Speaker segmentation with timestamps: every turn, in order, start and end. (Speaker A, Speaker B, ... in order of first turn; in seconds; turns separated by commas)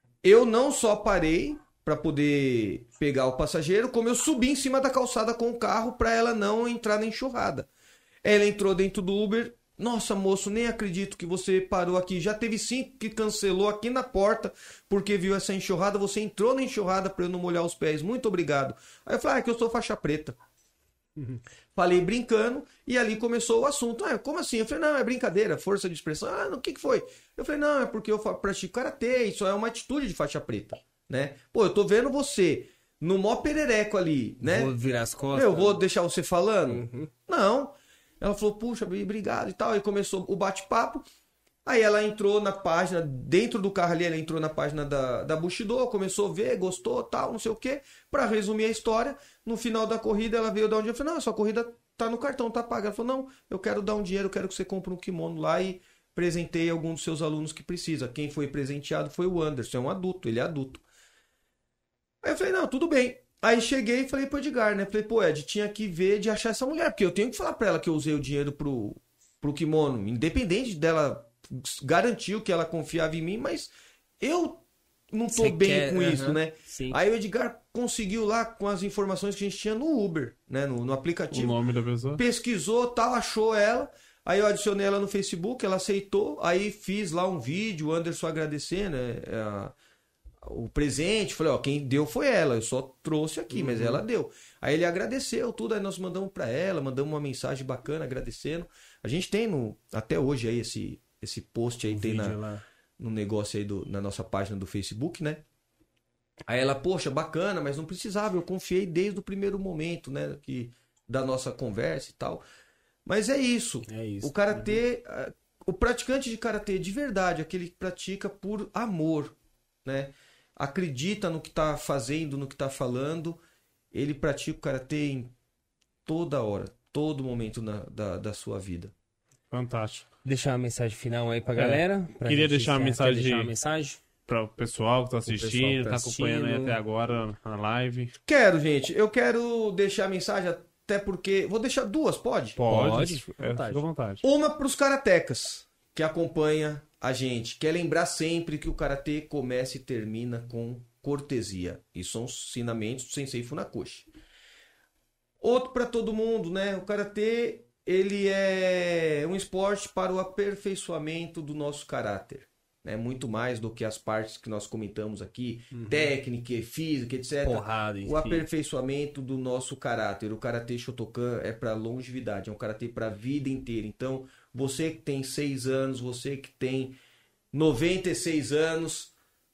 Speaker A: 0.2-7.7, Speaker A: 8.2-20.4, Speaker A: 21.7-34.7, Speaker B: 34.4-35.8, Speaker A: 35.3-41.0, Speaker B: 36.6-37.1, Speaker A: 41.6-60.8, Speaker A: 62.2-81.6, Speaker B: 75.3-77.0, Speaker C: 81.3-82.2, Speaker A: 82.1-89.7, Speaker A: 90.4-102.4, Speaker B: 93.5-94.0, Speaker B: 101.9-102.6, Speaker A: 103.0-105.4, Speaker A: 106.5-112.4, Speaker A: 113.0-123.4, Speaker B: 113.9-114.8, Speaker A: 123.9-125.3, Speaker A: 126.0-128.9, Speaker C: 129.5-130.1, Speaker B: 130.2-134.0, Speaker C: 131.6-133.5, Speaker C: 134.3-138.1, Speaker B: 135.2-136.8, Speaker A: 138.2-142.6, Speaker C: 142.6-144.2, Speaker B: 142.6-143.8, Speaker A: 144.2-154.1, Speaker A: 155.4-176.9, Speaker B: 165.7-166.1, Speaker B: 167.4-168.4, Speaker A: 177.5-179.1